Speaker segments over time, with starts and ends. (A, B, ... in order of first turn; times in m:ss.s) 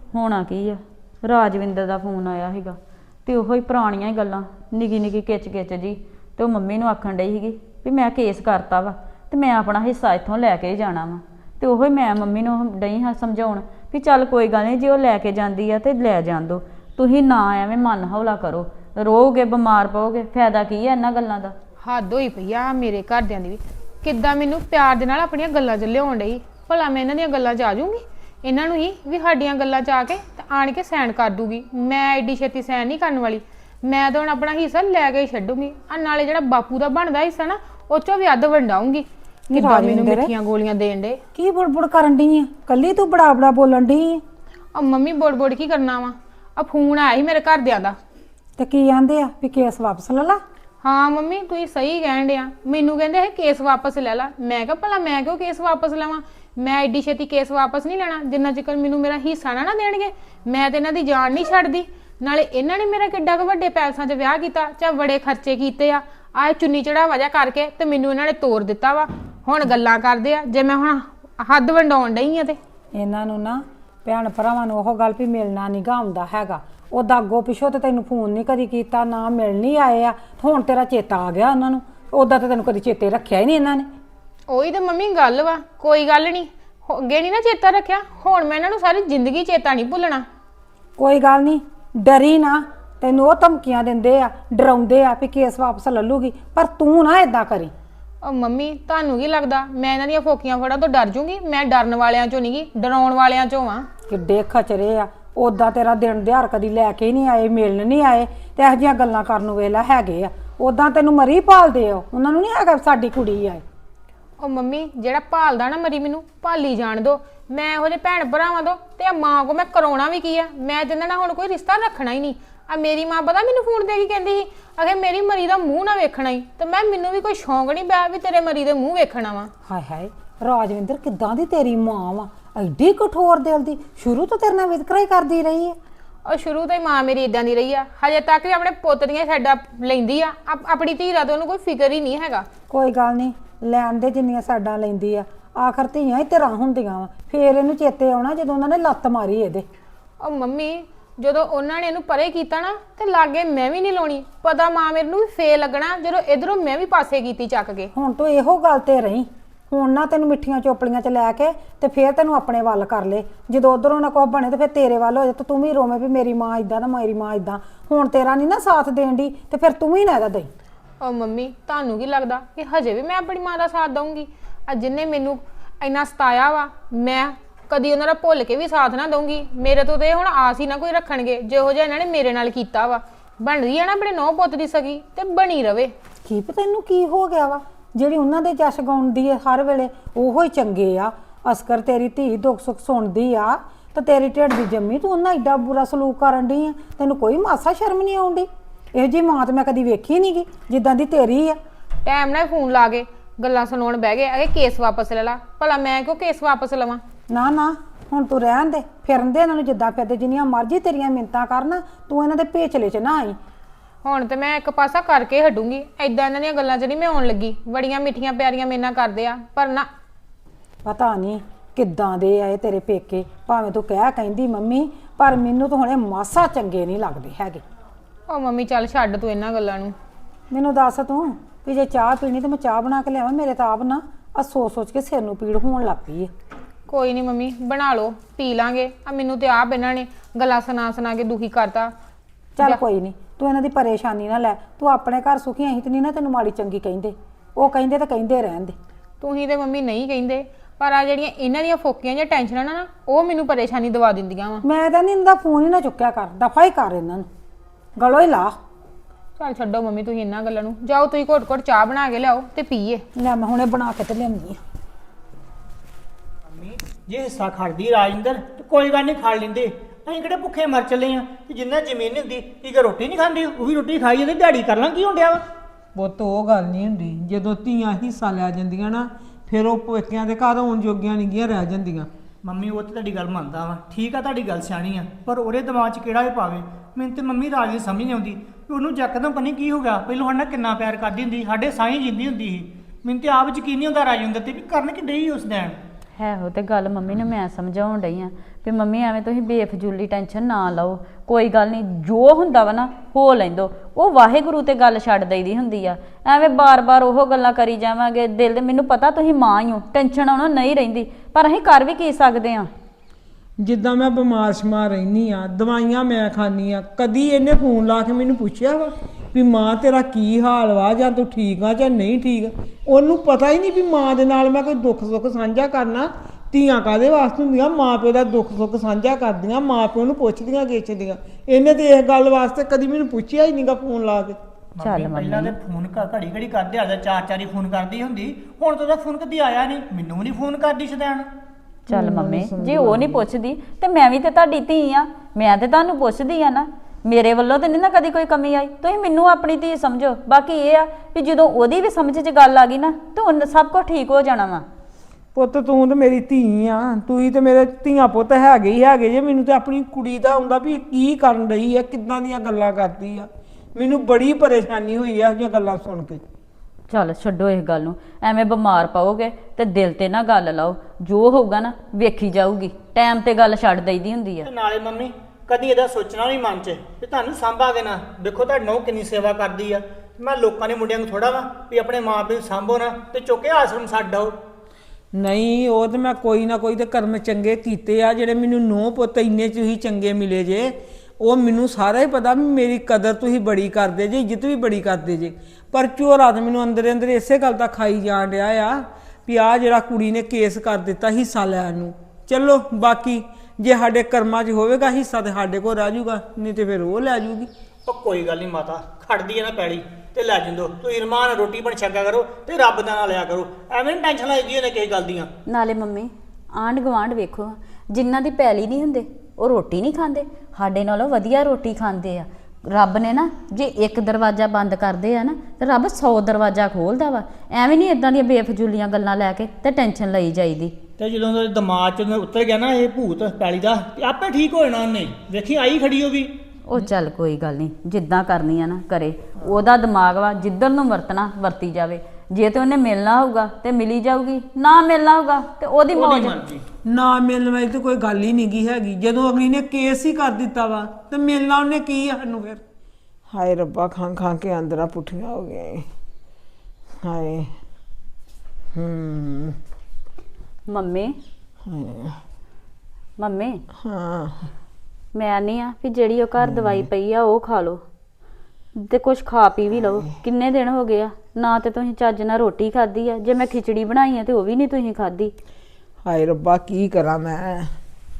0:00.1-0:21.5 A
0:21.8-0:41.2 B
0:39.5-0:40.3 C
0:41.3-0:44.2 C
0:44.7-0:48.0 B
0:48.6-0:50.4 C
0:50.8-1:12.6 B
1:12.9-1:23.9 C
1:24.5-1:30.2 B
1:31.0-1:37.7 C
1:38.2-1:43.9 B
1:44.1-1:53.6 C
1:54.4-2:09.5 B
2:09.6-2:15.8 C
2:16.2-2:22.4 B
2:22.7-2:29.6 C
2:30.2-2:37.9 B
2:37.9-2:50.5 C
2:51.0-3:05.9 B
3:06.2-3:21.6 C
3:22.0-3:27.0 B
3:27.3-3:33.4 C
3:34.0-3:39.9 B
3:40.8-3:47.6 C
3:48.3-3:49.9 B
3:50.5-3:56.3 C
3:56.9-4:01.9 B
4:02.6-4:08.7 C
4:09.2-4:14.6 B
4:14.6-4:17.3 C
4:18.0-4:18.5 C
4:19.4-4:23.0 B
4:23.2-4:24.6 C
4:26.5-4:35.4 D
4:35.9-4:42.1 E
4:42.4-4:55.8 D
4:56.1-5:12.7 A
5:13.6-5:34.4 E
5:34.8-5:41.3 D
5:34.8-5:35.6 A
5:41.9-5:54.6 A
5:41.9-5:43.2 E
5:55.3-6:06.2 E
6:06.9-6:14.5 A
6:14.4-6:24.3 D
6:25.1-6:47.5 E
6:47.8-6:55.3 D
6:55.5-7:10.8 A
7:11.0-7:16.3 D
7:16.7-7:26.4 A
7:25.9-7:26.6 D
7:26.8-7:32.6 E
7:33.3-7:35.9 E
7:37.0-7:37.5 E
7:38.7-7:39.6 E
7:40.7-7:41.2 A
7:41.7-7:42.2 E
7:43.2-7:43.6 A
7:43.8-7:44.5 E
7:45.1-7:47.8 A
7:48.8-7:55.3 A
7:56.0-7:57.7 E